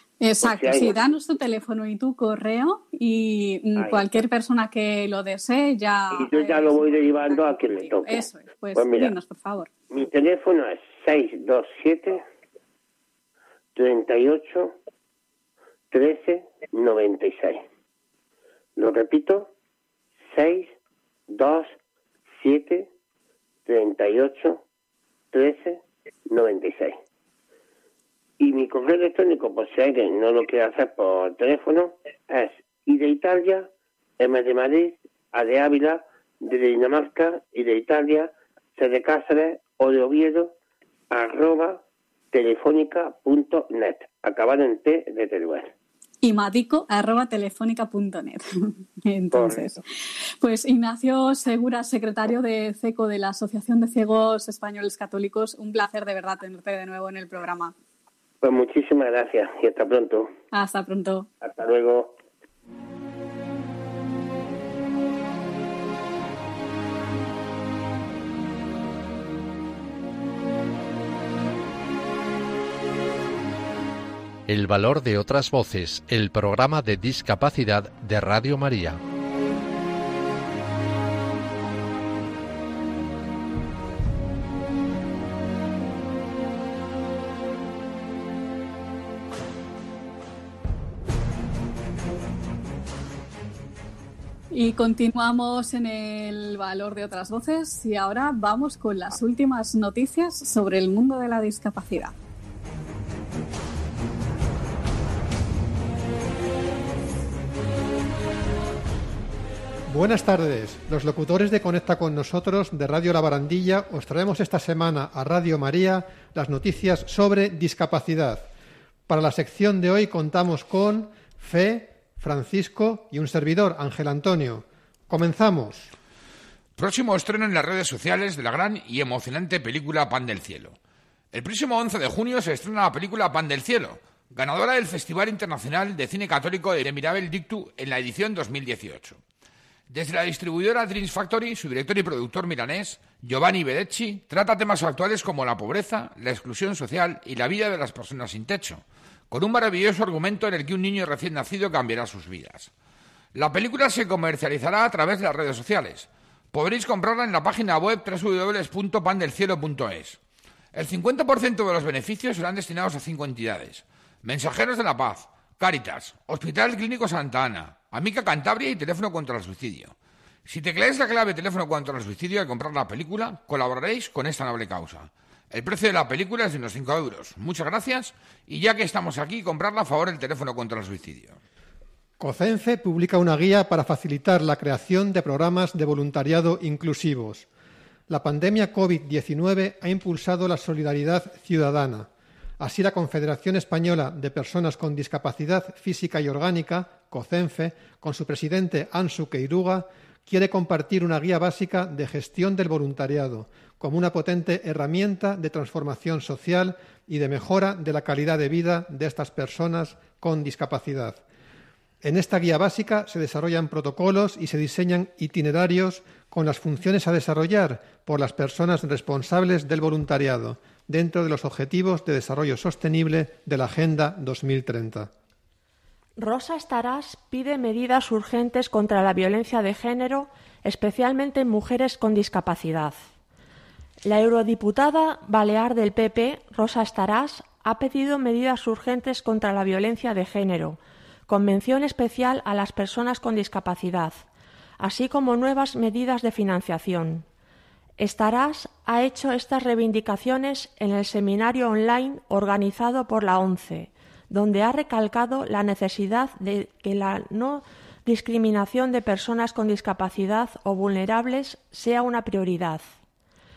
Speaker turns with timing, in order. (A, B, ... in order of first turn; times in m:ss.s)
0:00.2-0:09.7 A
0:00.4-0:01.1 B
0:03.8-0:04.2 B
0:06.1-0:09.2 B
0:09.9-0:12.2 B
0:13.8-0:14.8 B
0:15.9-0:17.6 B
0:18.8-0:19.5 B
0:20.3-0:20.7 B
0:21.3-0:21.8 B
0:22.4-0:22.9 B
0:23.7-0:24.6 B
0:25.3-0:27.0 B
0:28.4-0:40.5 B
0:41.1-0:45.7 B
0:46.2-0:49.8 A
0:49.3-0:49.8 B
0:50.4-0:57.7 A
0:58.4-1:00.3 B
1:00.5-1:01.3 A
1:01.4-1:02.1 B
1:14.5-1:19.0 C
1:34.5-1:42.1 A
1:49.9-1:58.5 D
1:59.1-2:05.9 D
2:06.8-2:10.8 E
2:11.3-2:19.2 E
2:19.9-2:32.7 E
2:33.3-2:40.2 E
2:40.7-2:50.0 E
2:50.5-3:01.4 E
3:02.2-3:07.5 D
3:08.1-3:12.1 D
3:12.6-3:31.2 D
3:32.0-3:45.1 D
3:46.2-3:53.0 F
3:54.1-4:04.3 F
4:04.8-4:07.3 F
4:08.0-4:22.9 F